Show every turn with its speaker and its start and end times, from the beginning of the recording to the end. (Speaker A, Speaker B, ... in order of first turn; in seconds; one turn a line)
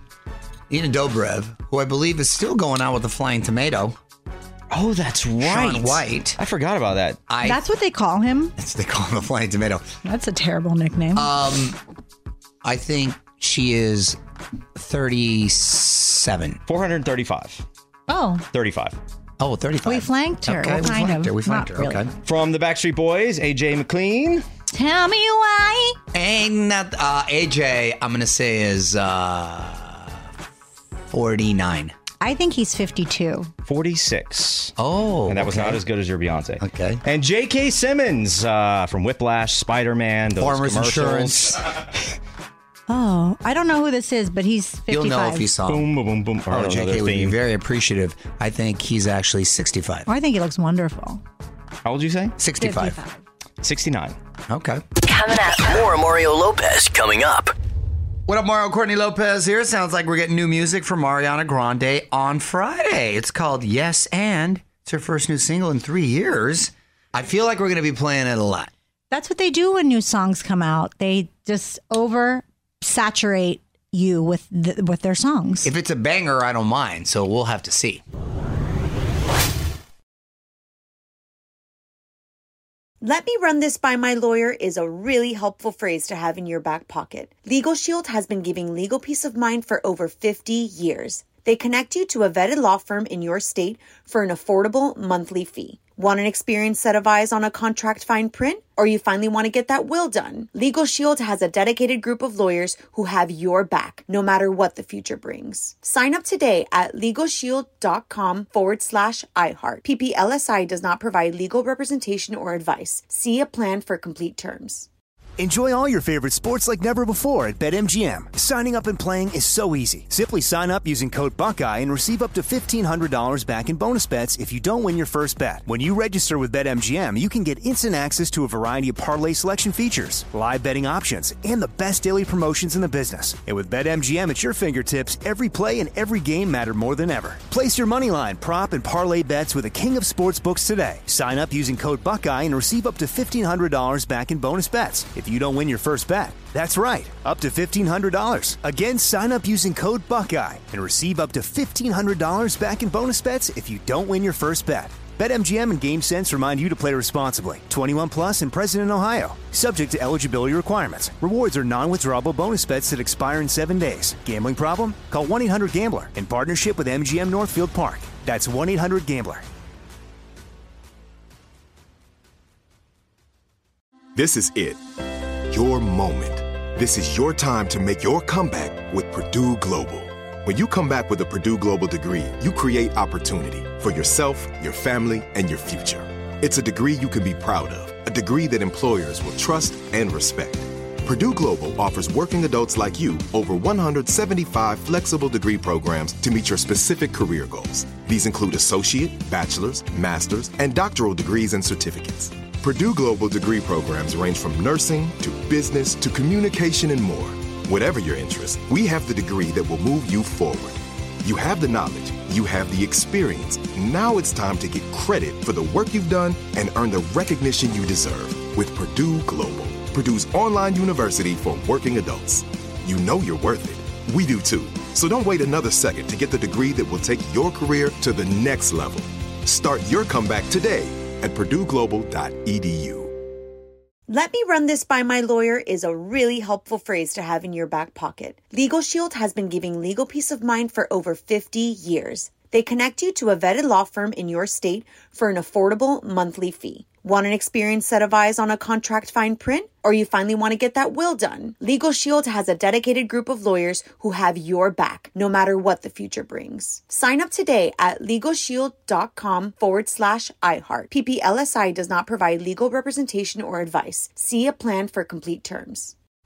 Speaker A: 0.7-4.0
Speaker B: 4.7-7.2
Speaker A: 5.4-6.4
Speaker A: 7.3-7.6
Speaker C: 7.4-8.5
Speaker A: 8.6-9.8
Speaker C: 10.0-11.3
Speaker A: 11.1-11.8
Speaker A: 12.6-14.2
Speaker A: 14.7-16.6
Speaker B: 16.6-17.6
Speaker C: 18.1-18.4
Speaker B: 18.5-19.0
Speaker A: 19.4-22.1
Speaker C: 19.8-22.0
Speaker B: 22.2-24.4
Speaker C: 24.7-26.0
Speaker A: 26.1-30.2
Speaker A: 31.1-31.9
Speaker C: 32.2-33.5
Speaker B: 33.6-34.7
Speaker A: 34.8-35.8
Speaker B: 35.3-41.6
Speaker A: 36.6-37.0
Speaker A: 40.4-41.7
Speaker C: 42.9-45.5
Speaker A: 44.9-45.9
Speaker B: 45.6-47.4
Speaker A: 46.5-50.1
Speaker C: 50.1-51.2
Speaker B: 51.8-52.3
Speaker A: 52.4-53.0
Speaker C: 52.6-53.2
Speaker B: 53.6-54.1
Speaker A: 54.5-54.8
Speaker D: 55.0-57.5
Speaker A: 58.3-68.7
Speaker C: 69.1-75.7
Speaker A: 75.6-78.0
Speaker E: 83.0-114.9
Speaker F: 115.4-169.4
Speaker G: 174.1-174.8
Speaker G: 175.5-233.1
Speaker E: 234.1-265.9